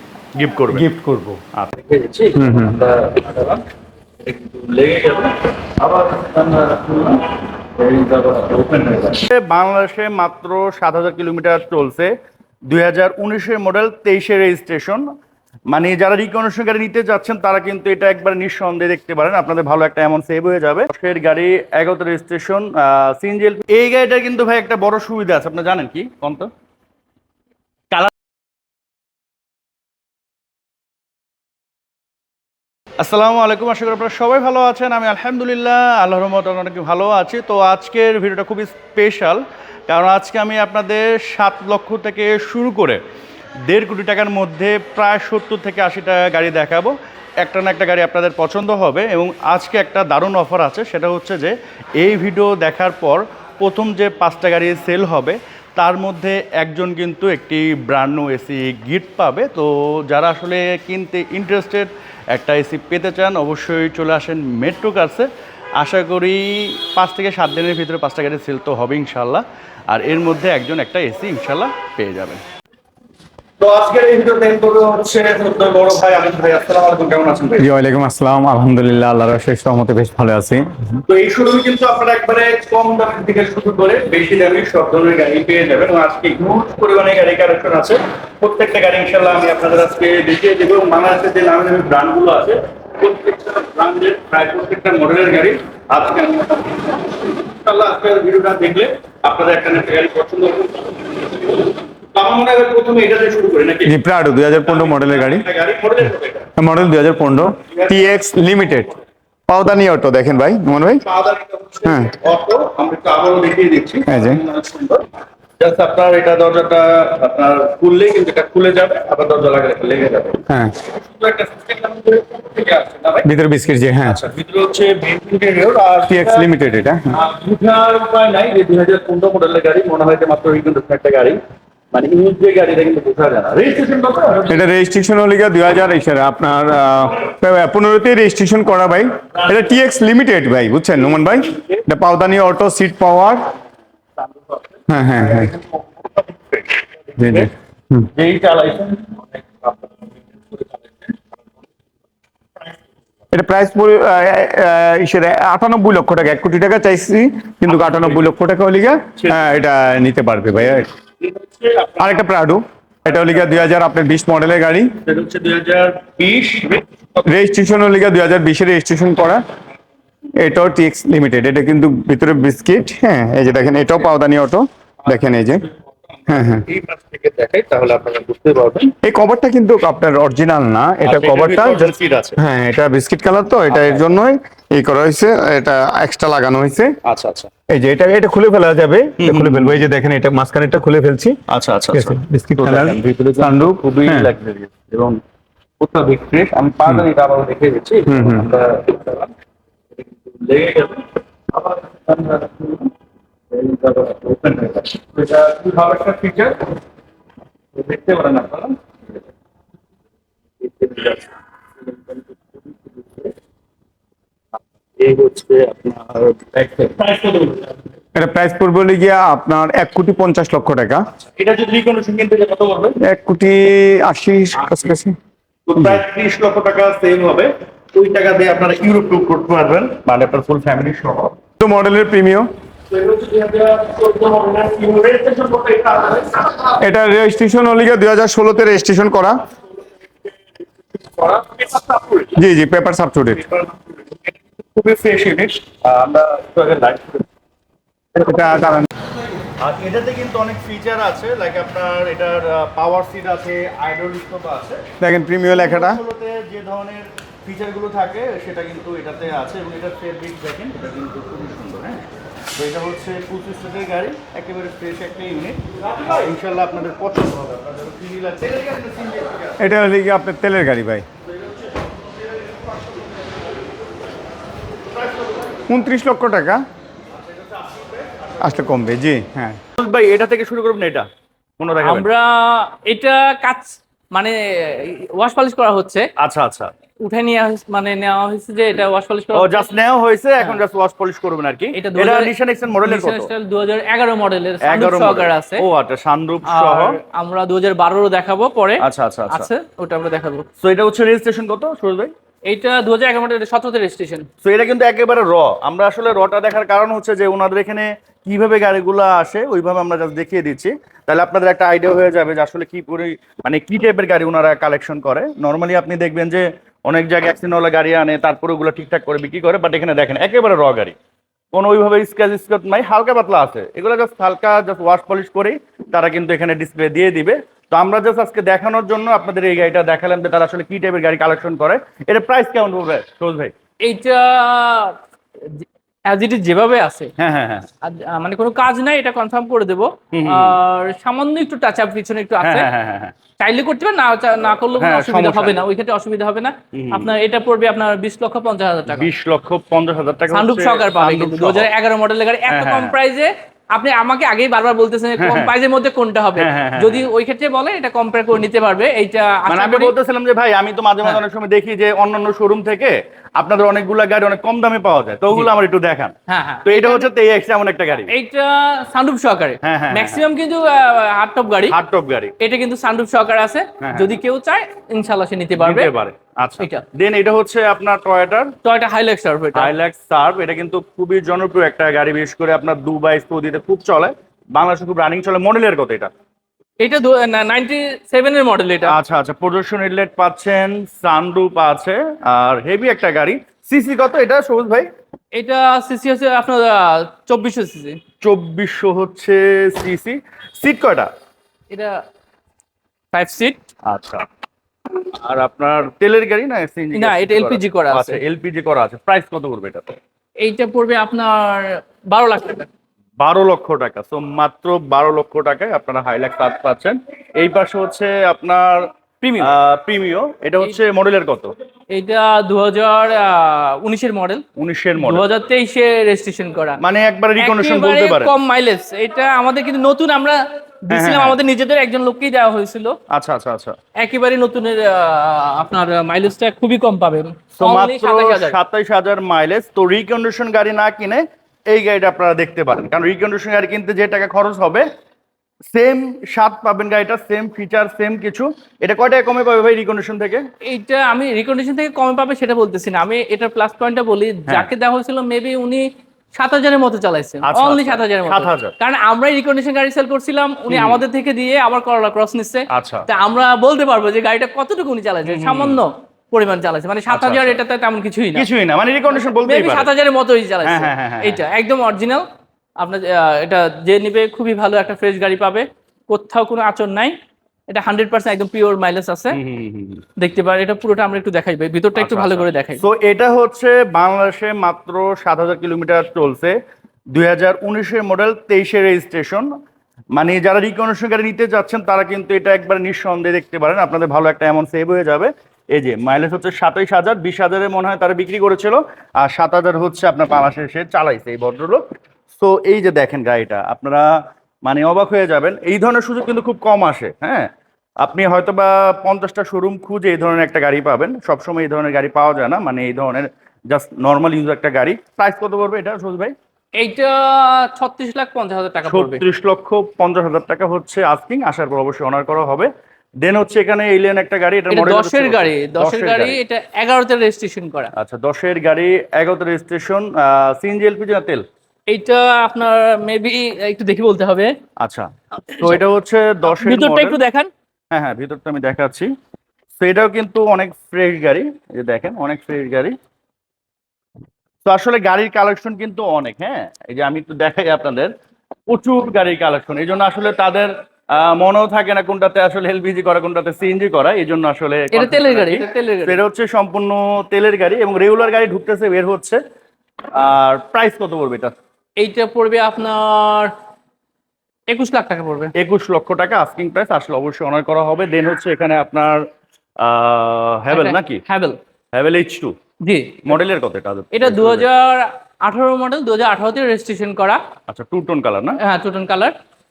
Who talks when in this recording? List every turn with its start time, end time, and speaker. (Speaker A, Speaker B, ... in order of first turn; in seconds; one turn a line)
Speaker A: 0.4-0.9
Speaker B: 0.7-1.4
Speaker A: 1.6-3.6
Speaker B: 2.4-2.8
Speaker A: 4.2-7.2
Speaker A: 7.8-12.1
Speaker A: 12.7-15.1
Speaker A: 15.7-26.5
Speaker A: 33.0-43.0
Speaker A: 43.7-72.4
Speaker A: 73.6-77.7
Speaker B: 77.6-80.7
Speaker A: 81.1-104.0
Speaker B: 103.9-105.5
Speaker A: 104.7-106.5
Speaker B: 106.6-108.9
Speaker A: 107.7-108.1
Speaker B: 109.5-111.0
Speaker A: 111.1-115.0
Speaker B: 111.9-112.1
Speaker B: 114.1-114.4
Speaker A: 115.6-123.3
Speaker B: 120.5-120.8
Speaker B: 123.2-124.2
Speaker A: 124.1-126.5
Speaker B: 126.1-127.2
Speaker A: 127.1-131.4
Speaker A: 131.9-134.6
Speaker B: 134.5-143.5
Speaker A: 141.2-141.8
Speaker B: 144.9-145.5
Speaker A: 145.2-147.5
Speaker B: 147.2-148.1
Speaker A: 148.2-149.9
Speaker B: 153.3-160.9
Speaker A: 157.7-158.2
Speaker A: 159.2-159.4
Speaker A: 161.2-162.2
Speaker B: 162.0-165.0
Speaker A: 165.1-167.3
Speaker B: 167.2-169.4
Speaker B: 170.4-175.6
Speaker A: 176.2-178.9
Speaker B: 176.3-176.7
Speaker B: 179.0-187.0
Speaker A: 181.1-182.4
Speaker A: 183.7-184.1
Speaker A: 187.0-187.5
Speaker B: 187.7-191.4
Speaker A: 189.2-189.8
Speaker A: 191.5-195.2
Speaker B: 191.9-194.3
Speaker A: 195.8-199.3
Speaker B: 198.1-198.5
Speaker A: 200.0-202.9
Speaker A: 203.5-206.8
Speaker A: 207.8-208.8
Speaker A: 210.6-211.3
Speaker A: 211.8-213.3
Speaker A: 215.0-217.8
Speaker B: 218.2-221.1
Speaker A: 221.4-223.0
Speaker B: 223.0-225.2
Speaker A: 225.7-231.3
Speaker B: 231.6-232.5
Speaker A: 232.9-236.8
Speaker B: 236.8-239.4
Speaker A: 240.9-242.3
Speaker B: 242.4-243.4
Speaker A: 243.4-247.2
Speaker B: 248.2-248.9
Speaker A: 249.6-254.8
Speaker B: 255.0-256.0
Speaker A: 255.5-269.7
Speaker B: 269.6-271.1
Speaker A: 272.4-273.0
Speaker A: 274.9-275.6
Speaker B: 275.7-276.6
Speaker A: 277.5-278.3
Speaker B: 278.4-279.6
Speaker A: 279.8-281.1
Speaker A: 281.6-282.1
Speaker C: 281.8-286.1
Speaker A: 286.2-286.7
Speaker C: 287.0-289.6
Speaker A: 289.3-293.3
Speaker C: 291.8-295.6
Speaker A: 294.6-297.0
Speaker C: 296.5-300.4
Speaker A: 298.8-299.5
Speaker A: 300.6-302.1
Speaker C: 302.5-304.3
Speaker A: 304.4-320.9
Speaker A: 321.5-333.5
Speaker C: 333.8-337.1
Speaker A: 337.2-337.7
Speaker C: 337.8-342.7
Speaker A: 340.1-340.6
Speaker A: 342.4-343.1
Speaker C: 343.4-349.1
Speaker A: 344.8-345.6
Speaker A: 346.7-347.1
Speaker A: 348.9-351.7
Speaker C: 350.3-359.9
Speaker A: 352.5-353.0
Speaker A: 355.2-355.5
Speaker A: 356.4-357.1
Speaker A: 359.5-368.1
Speaker C: 366.3-367.1
Speaker C: 368.1-371.8
Speaker A: 369.6-370.2
Speaker A: 371.7-372.3
Speaker C: 372.4-375.9
Speaker A: 373.8-374.2
Speaker A: 375.6-378.5
Speaker C: 378.6-379.7
Speaker A: 379.6-386.1
Speaker C: 386.8-388.9
Speaker A: 388.9-394.9
Speaker C: 395.3-398.0
Speaker A: 398.2-401.1
Speaker C: 401.7-402.0
Speaker C: 403.1-403.6
Speaker A: 403.9-404.3
Speaker A: 405.1-410.0
Speaker C: 406.9-408.2
Speaker C: 410.4-412.7
Speaker A: 413.2-421.5
Speaker C: 419.2-419.5
Speaker C: 421.9-424.4
Speaker A: 424.6-425.3
Speaker C: 425.0-426.8
Speaker A: 426.8-428.3
Speaker C: 427.4-433.0
Speaker A: 430.9-431.4
Speaker A: 433.1-433.8
Speaker C: 434.0-438.6
Speaker A: 437.6-444.9
Speaker A: 445.7-450.5
Speaker C: 450.6-468.5
Speaker A: 457.4-458.8
Speaker A: 460.7-461.0
Speaker A: 462.7-463.1
Speaker A: 465.3-465.8
Speaker A: 467.1-467.6
Speaker A: 468.4-469.9
Speaker C: 469.1-472.3
Speaker A: 470.6-471.4
Speaker C: 472.8-477.2
Speaker C: 477.7-479.4
Speaker A: 479.3-480.0
Speaker C: 480.2-482.8
Speaker A: 482.0-486.6
Speaker A: 487.1-489.5
Speaker A: 490.1-501.8
Speaker A: 502.4-507.5
Speaker A: 508.0-516.4
Speaker C: 516.8-519.2
Speaker A: 518.9-522.7
Speaker A: 523.2-526.4
Speaker C: 524.7-527.9
Speaker A: 528.0-531.4
Speaker C: 531.9-534.5
Speaker A: 534.8-537.2
Speaker C: 535.5-535.8
Speaker C: 536.5-537.5
Speaker A: 537.9-539.1
Speaker A: 539.8-543.0
Speaker A: 544.6-548.1
Speaker A: 548.7-559.4
Speaker C: 554.9-556.2
Speaker A: 560.1-561.6
Speaker C: 562.0-563.5
Speaker C: 564.7-565.5
Speaker A: 565.6-569.2
Speaker A: 569.8-571.2
Speaker C: 570.7-571.6
Speaker A: 571.9-572.5
Speaker C: 572.8-573.4
Speaker A: 573.3-574.7
Speaker C: 574.1-577.4
Speaker A: 577.7-578.6
Speaker C: 578.6-579.4